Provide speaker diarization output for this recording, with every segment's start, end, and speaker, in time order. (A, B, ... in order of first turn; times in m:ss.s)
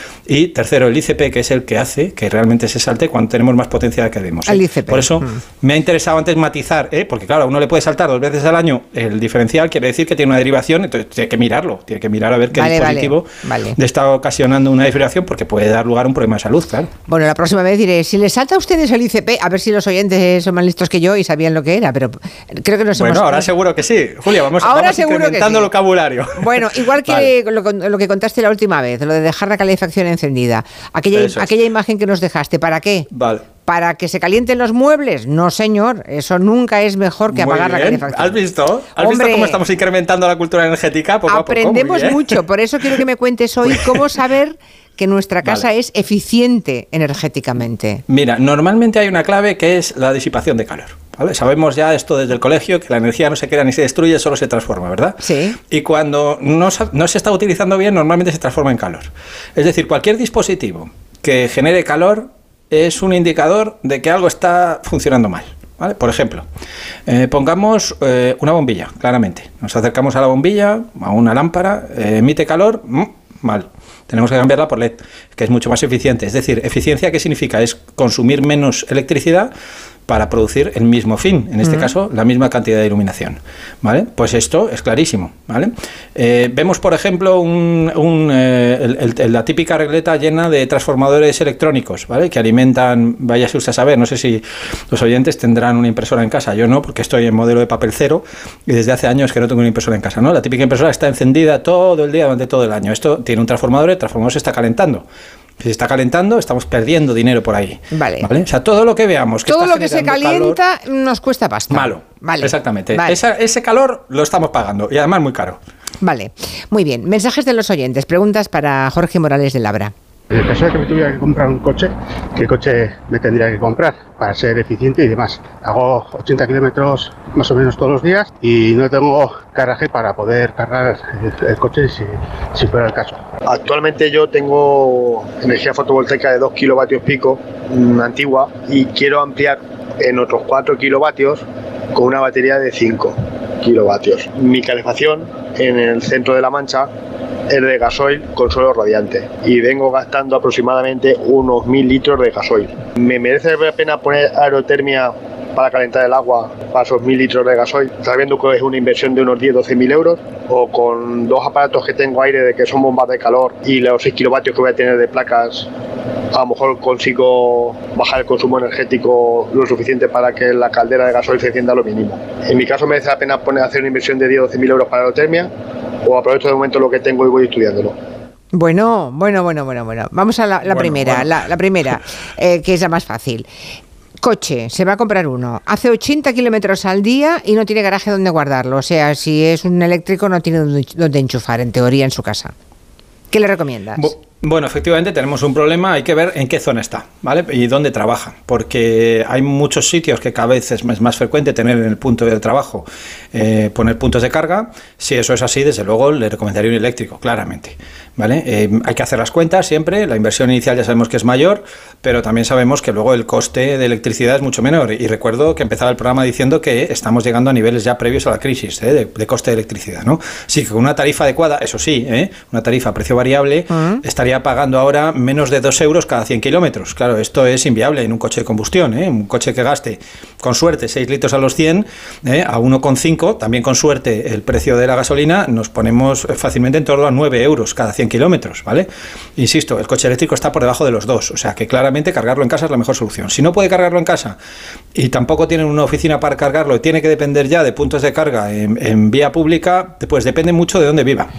0:00.3-0:16.9 A
0:04.5-0:05.4 B
0:12.5-0:13.8 B
0:17.1-0:23.5 B
0:22.9-0:27.3 A
0:24.3-0:25.7 B
0:26.4-0:33.1 B
0:31.1-0:31.5 A
0:33.1-0:33.4 A
0:33.6-0:38.4 B
0:37.3-0:42.4 A
0:39.0-0:39.6 B
0:41.3-0:48.0 B
0:43.6-0:44.0 A
0:48.1-1:06.4 A
0:55.2-0:55.6 B
1:07.1-1:19.5 A
1:20.1-1:45.0 A
1:21.6-1:21.9 B
1:45.6-1:50.6 A
1:47.9-1:48.3 B
1:49.5-1:53.2 B
1:51.7-1:55.6 A
1:56.0-1:59.9 B
2:00.3-2:13.2 C
2:13.4-2:26.9 D
2:27.5-2:45.7 D
2:46.3-2:55.5 D
2:56.0-2:58.0 D
2:58.5-3:03.5 B
3:00.7-3:01.3 A
3:04.2-3:12.5 B
3:13.3-3:14.1 B
3:14.0-4:04.4 A
3:43.7-3:44.0 B
4:04.9-4:11.3 A